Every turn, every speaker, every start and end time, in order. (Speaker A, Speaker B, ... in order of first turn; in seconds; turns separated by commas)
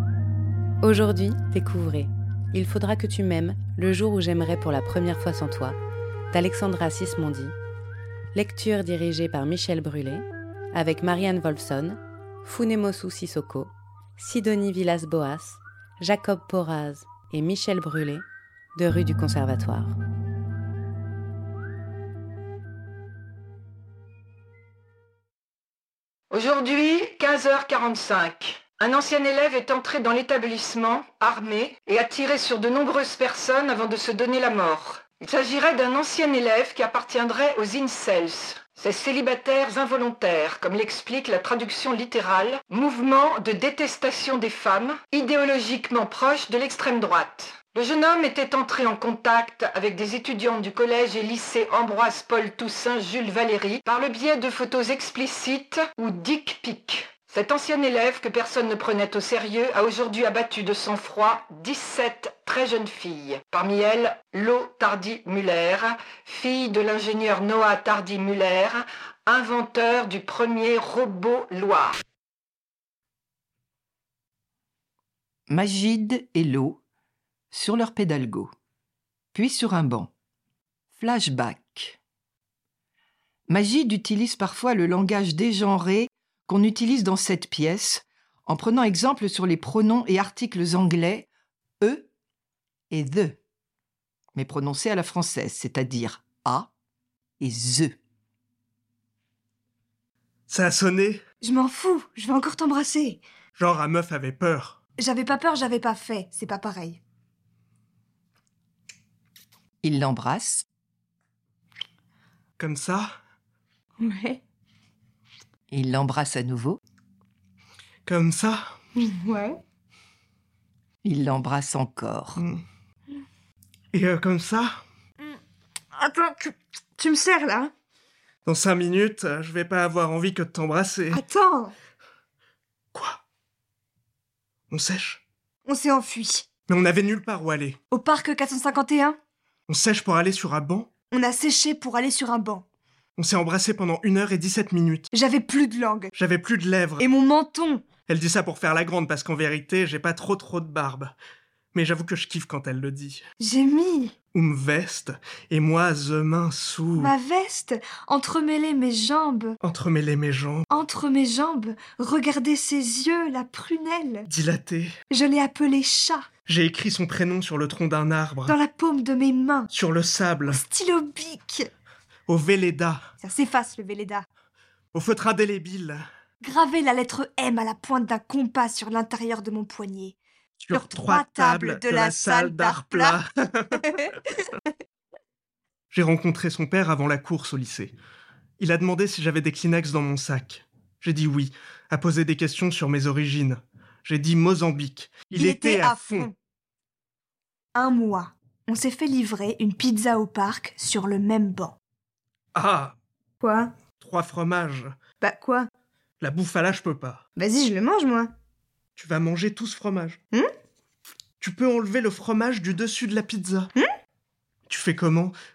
Speaker A: 0.8-5.8, Speaker A: 6.3-7.5, Speaker A: 8.3-20.0, Speaker B: 26.3-72.0, Speaker C: 75.5-76.8, Speaker C: 77.5-78.5, Speaker C: 79.3-80.1, Speaker C: 80.9-82.0, Speaker C: 83.5-91.3, Speaker C: 91.8-92.1, Speaker C: 92.9-93.4, Speaker C: 94.3-96.7, Speaker C: 97.4-98.0, Speaker D: 100.5-101.2, Speaker E: 101.4-103.2, Speaker D: 103.5-104.8, Speaker E: 105.0-107.0, Speaker C: 109.8-110.7, Speaker D: 112.6-113.2, Speaker E: 114.0-114.4, Speaker C: 115.7-116.8, Speaker D: 118.1-118.8, Speaker E: 119.0-119.6, Speaker C: 121.0-122.4, Speaker D: 122.4-122.6, Speaker D: 123.9-124.8, Speaker E: 126.0-127.7, Speaker D: 128.4-131.2, Speaker E: 131.1-131.8, Speaker D: 132.9-133.2, Speaker D: 134.7-135.2, Speaker E: 135.7-136.5, Speaker D: 136.7-137.8, Speaker E: 137.9-139.2, Speaker D: 139.7-140.9, Speaker E: 141.1-142.6, Speaker D: 143.2-145.1, Speaker E: 145.1-146.1, Speaker D: 146.1-147.1, Speaker E: 147.0-147.9, Speaker D: 148.1-151.2, Speaker D: 151.7-153.2, Speaker E: 153.4-154.1, Speaker D: 154.3-157.1, Speaker E: 157.0-159.6, Speaker D: 159.6-160.7, Speaker E: 160.7-164.3, Speaker D: 164.3-164.9, Speaker E: 165.1-166.3, Speaker D: 166.5-168.6, Speaker E: 168.5-169.7, Speaker D: 169.7-170.6, Speaker E: 170.5-171.7, Speaker D: 172.3-173.1, Speaker E: 173.2-174.3, Speaker D: 174.9-176.1, Speaker E: 176.4-180.2, Speaker D: 180.6-183.9, Speaker E: 180.7-183.2, Speaker E: 183.8-184.2, Speaker D: 185.9-187.9, Speaker D: 188.6-196.3, Speaker E: 195.3-196.3, Speaker E: 197.8-201.8, Speaker D: 202.6-203.0, Speaker E: 203.4-203.8, Speaker D: 204.0-205.0, Speaker E: 205.2-205.7, Speaker D: 206.2-207.2, Speaker E: 207.4-208.3, Speaker D: 209.0-210.2, Speaker D: 211.4-213.7, Speaker D: 214.7-215.3